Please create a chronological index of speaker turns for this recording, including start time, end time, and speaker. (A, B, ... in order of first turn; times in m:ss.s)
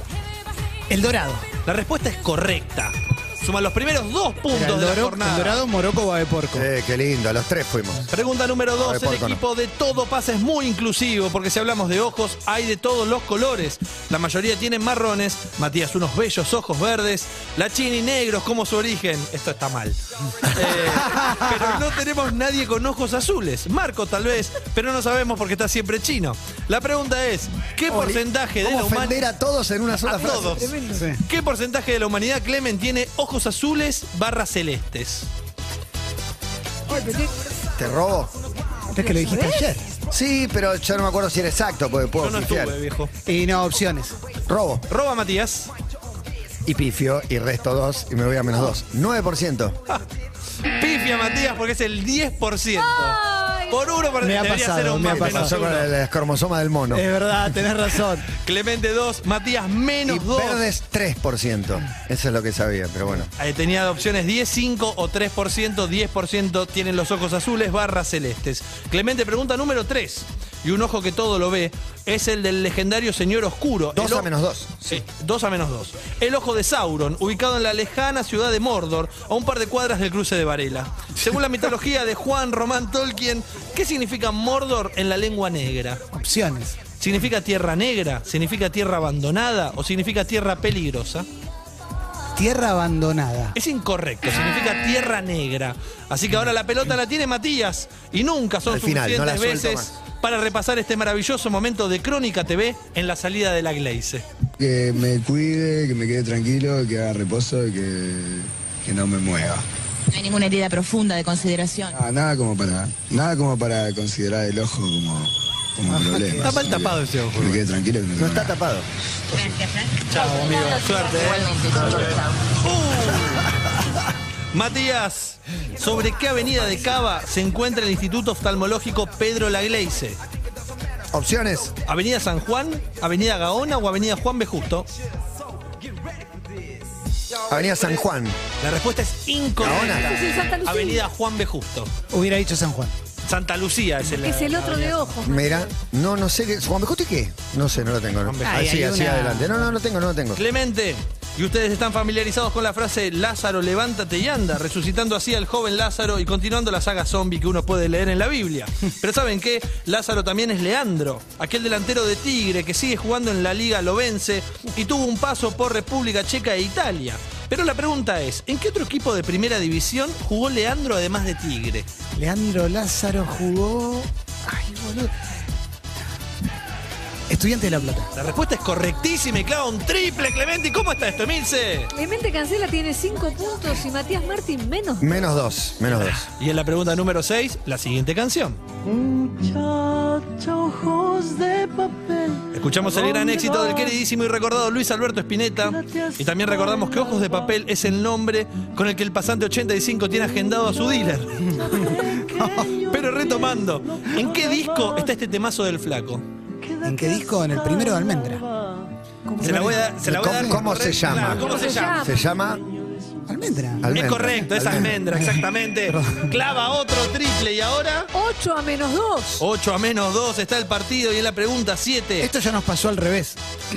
0:00.9-0:01.4 A
0:01.6-0:05.6 B
0:04.5-0:06.7 A
0:06.5-0:08.0 C
0:08.1-0:29.2 B
0:08.8-0:09.4 C
0:21.1-0:21.5 A
0:28.6-0:30.8 C
0:30.0-0:30.7 B
0:30.6-0:31.0 D
0:30.9-0:31.2 A
0:31.2-0:35.3 B
0:36.9-0:37.3 D
0:37.8-0:38.3 C
0:38.9-0:39.9 A
0:39.0-0:39.7 D
0:40.1-0:42.8 C
0:42.2-0:43.1 B
0:43.3-0:44.2 A
0:44.5-0:44.8 C
0:44.9-0:45.7 B
0:46.6-0:49.8 C
0:50.8-0:55.9 B
0:52.8-0:53.8 D
0:54.2-0:55.6 A
0:55.1-0:57.1 C
0:56.9-0:58.3 A
0:58.4-1:00.6 B
1:00.0-1:03.3 C
1:03.4-1:14.3 B
1:14.0-1:15.0 C
1:14.9-1:26.0 B
1:26.1-1:26.8 A
1:27.0-1:31.3 B
1:32.4-1:33.6 A
1:33.5-1:44.2 B
1:38.7-1:39.9 C
1:44.6-1:49.6 E
1:50.1-1:51.9 F
1:51.9-1:58.6 E
1:55.9-1:56.6 A
1:56.4-1:57.7 B
1:58.2-1:58.9 C
1:59.4-2:02.2 F
2:00.1-2:03.5 B
2:04.5-2:10.2 B
2:11.1-2:11.7 C
2:11.8-2:14.9 B
2:17.5-2:18.4 C
2:18.6-2:21.9 B
2:19.6-2:20.1 C
2:19.9-2:21.1 D
2:22.1-2:23.0 A
2:23.2-2:25.2 B
2:24.2-2:25.3 D
2:25.2-2:30.4 C
2:28.2-2:28.6 B
2:28.4-2:29.8 A
2:30.3-2:51.9 B
2:52.2-2:55.1 A
2:57.3-2:58.1 A
2:58.2-3:01.9 B
3:01.9-3:05.1 D
3:05.0-3:06.3 C
3:05.9-3:08.6 B
3:12.5-3:26.2 B
3:21.6-3:22.8 A
3:26.8-3:28.4 A
3:29.4-3:29.9 A
3:29.4-3:32.0 B
3:30.0-3:32.6 C
3:31.5-3:32.1 D
3:33.3-3:34.0 A
3:33.8-3:35.0 C
3:33.9-3:38.1 B
3:35.0-3:36.3 A
3:38.1-3:39.4 D
3:39.4-3:42.3 B
3:42.2-3:43.4 A